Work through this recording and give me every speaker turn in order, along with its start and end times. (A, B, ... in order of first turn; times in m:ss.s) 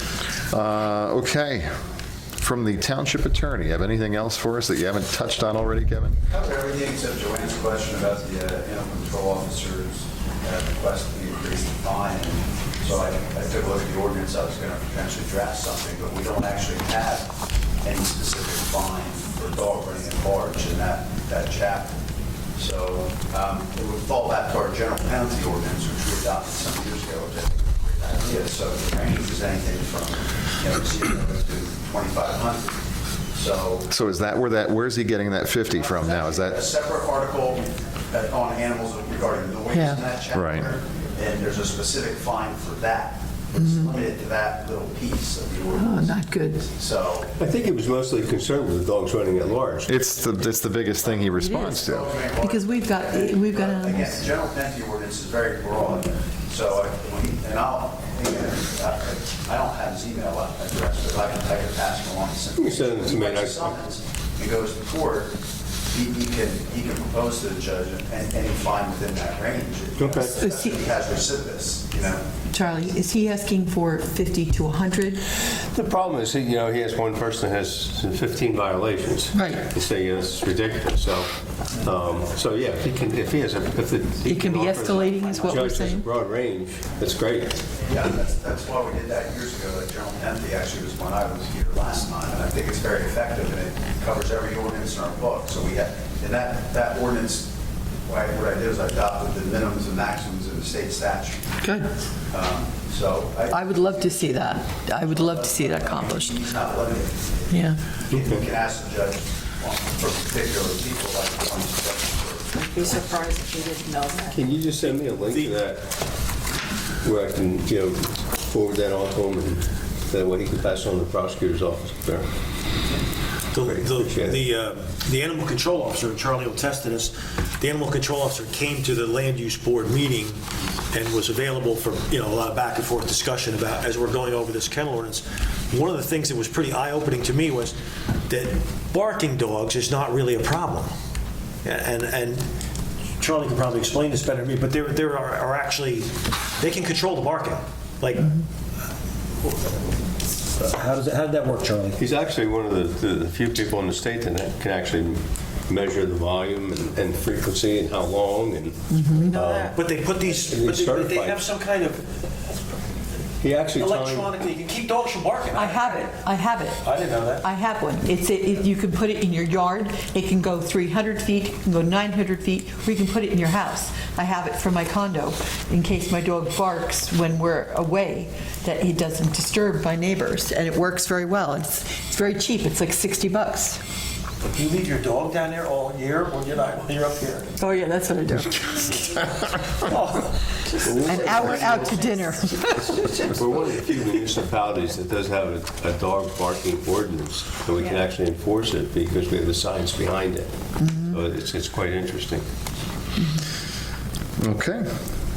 0:00.5-0:01.7 A
0:02.4-0:06.2 A
0:06.3-0:22.0 B
0:22.6-0:32.8 B
0:33.3-0:33.9 B
0:33.9-0:36.6 A
0:35.7-0:47.3 B
0:39.7-0:40.0 C
0:40.3-0:40.7 A
0:43.6-0:43.9 C
0:45.8-0:46.6 C
0:47.4-0:50.0 D
0:49.8-0:52.1 A
0:51.4-0:51.8 C
0:51.5-1:05.4 B
0:52.4-0:54.3 C
1:02.6-1:03.8 D
1:05.9-1:12.3 B
1:10.0-1:10.4 D
1:10.4-1:10.8 C
1:12.5-1:15.2 C
1:15.5-1:27.7 D
1:19.3-1:19.7 C
1:24.2-1:26.1 C
1:27.8-1:37.5 B
1:38.0-1:41.4 B
1:41.6-1:41.9 C
1:42.3-1:53.2 B
1:43.5-1:46.4 C
1:47.5-1:47.8 C
1:52.5-1:54.5 E
1:54.3-1:56.0 D
1:55.3-1:55.6 F
1:57.0-2:02.3 D
2:03.5-2:10.4 F
2:03.6-2:04.4 D
2:10.9-2:17.7 F
2:18.3-2:20.9 F
2:21.6-2:22.4 F
2:23.2-2:28.3 F
2:30.6-2:32.0 F
2:32.0-2:41.4 D
2:38.9-2:39.3 C
2:39.2-2:39.7 E
2:39.7-2:42.0 F
2:43.4-2:44.3 D
2:43.7-2:46.0 F
2:45.5-2:46.8 C
2:46.8-2:47.4 F
2:47.4-3:03.8 C
3:04.5-3:07.5 F
3:07.6-3:09.3 C
3:09.8-3:10.3 F
3:10.8-3:12.0 D
3:10.9-3:11.9 E
3:11.0-3:13.0 C
3:12.9-3:13.2 E
3:13.3-3:22.4 D
3:20.8-3:21.2 C
3:24.4-3:24.9 A